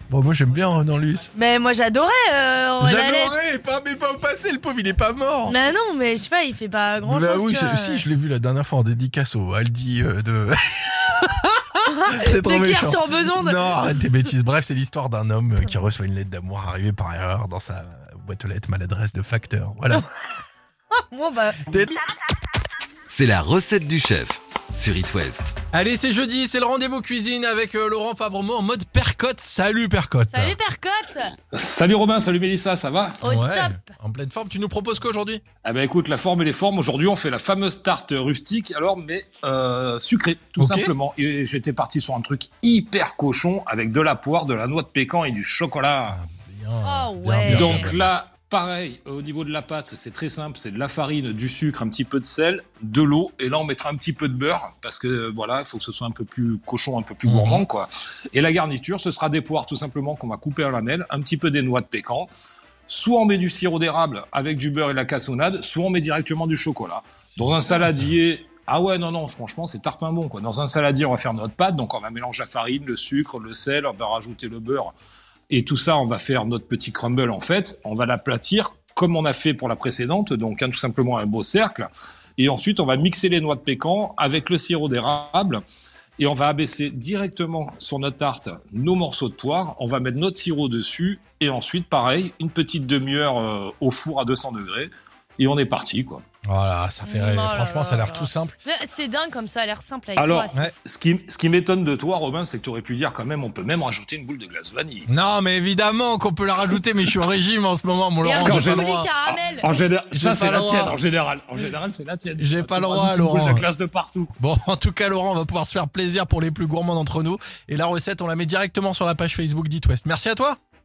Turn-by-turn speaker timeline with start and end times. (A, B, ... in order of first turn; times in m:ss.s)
0:00.1-0:01.3 A
0:01.3-0:03.4 B
0:02.8-0:05.6 A
0:05.4-0:08.0 B
0:07.0-0:20.1 A
0:11.8-0:13.7 B
0:21.0-0:21.6 B
0:21.7-0:22.0 A
0:23.1-0:25.5 C
0:25.7-0:30.6 A
0:30.3-0:31.3 B
0:31.5-0:33.2 D
0:33.2-0:33.8 B
0:33.2-0:35.4 A
0:35.6-0:46.2 D
0:40.6-0:40.9 A
0:46.1-0:48.1 A
0:46.8-0:47.9 B
0:47.5-1:02.3 D
0:57.2-0:57.6 A
1:02.9-1:14.9 D
1:07.4-1:08.2 A
1:15.5-1:25.6 D
1:26.2-1:36.2 D
1:36.4-1:38.6 A
1:37.0-1:40.7 B
1:40.2-1:45.1 D
1:45.1-1:49.1 A
1:48.2-1:49.7 B
1:48.4-1:54.3 D
1:50.1-1:51.0 A
1:52.4-1:53.6 A
1:54.4-2:00.6 A